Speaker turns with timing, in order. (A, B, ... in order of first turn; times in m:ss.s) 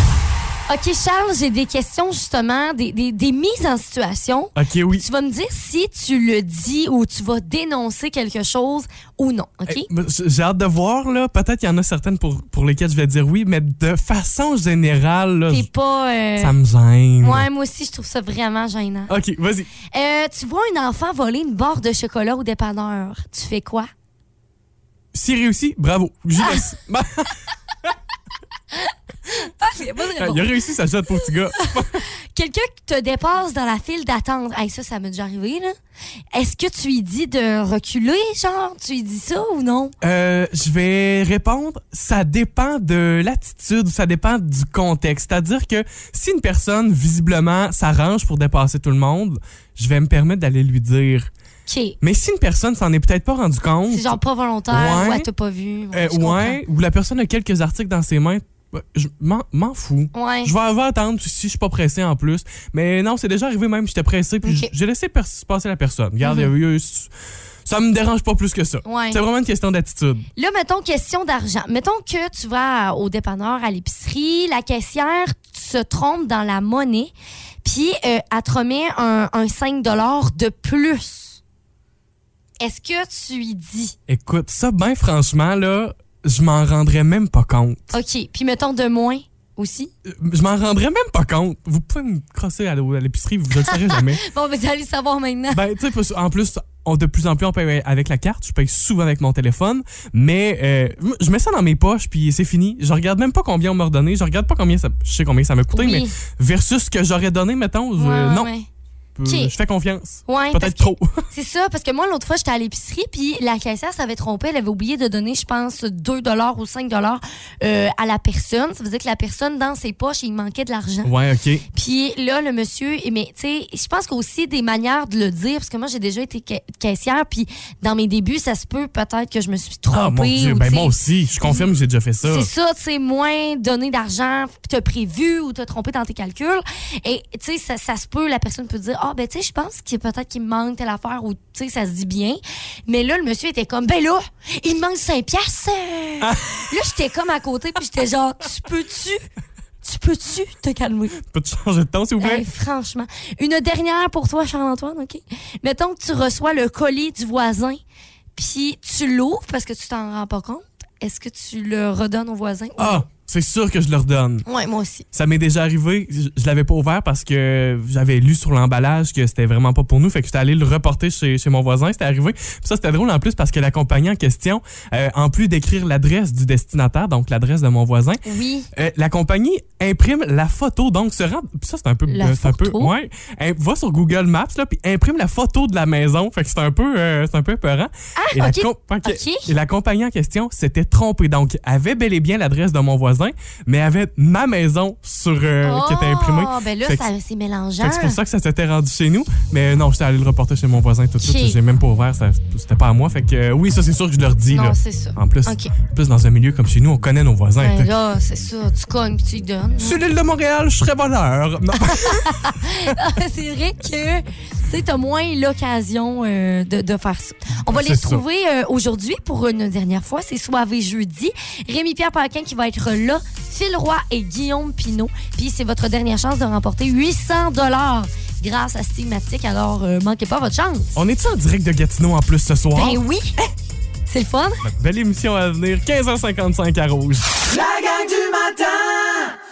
0:00.7-0:09.9 A
0:04.6-0:05.0 B
0:09.7-0:15.7 B
0:15.5-0:16.6 A
0:16.4-0:17.5 B
0:17.2-0:19.1 A
0:19.1-0:19.7 B
0:19.9-0:23.9 A
0:25.1-0:27.9 B
0:29.3-0:30.5 A
0:30.2-0:32.0 B
0:31.6-0:35.8 A
0:36.3-0:39.9 A
0:40.0-0:51.3 B
0:51.7-0:52.0 A
0:52.0-0:55.3 B
0:53.9-0:56.6 A
0:55.9-1:07.1 B
1:00.1-1:00.5 A
1:04.4-1:04.7 A
1:06.2-1:06.5 A
1:07.6-1:10.2 B
1:08.8-1:09.2 A
1:10.4-1:17.1 A
1:17.6-1:21.4 A
1:22.6-1:24.0 A
1:24.1-1:28.0 B
1:27.9-1:29.9 A
1:30.0-1:34.2 B
1:33.7-1:35.6 A
1:35.5-1:48.5 B
1:45.7-1:46.1 A
1:48.0-1:48.7 A
1:49.2-1:51.2 B
1:49.3-1:49.5 A
1:50.3-2:01.1 A
2:01.0-2:01.6 B
2:01.7-2:11.7 A
2:09.9-2:12.5 B
2:12.2-2:29.2 A
2:26.2-2:26.7 B
2:29.8-2:31.2 A
2:31.2-2:32.5 B
2:32.2-2:37.8 A
2:38.4-2:43.1 A
2:42.8-2:44.4 B
2:44.5-2:45.1 A
2:45.1-2:58.2 B
2:58.2-2:58.7 A
2:58.7-3:17.1 B
3:02.1-3:02.9 A
3:08.2-3:09.5 A
3:15.6-3:18.2 A
3:17.8-3:27.9 B
3:21.2-3:21.6 A
3:24.5-3:25.7 A
3:27.6-3:30.0 A
3:29.8-3:32.9 B
3:31.8-3:51.0 A
3:37.7-3:38.2 B
3:51.0-3:53.0 B
3:52.8-3:53.3 A
3:54.1-3:54.6 A
3:54.6-3:57.3 B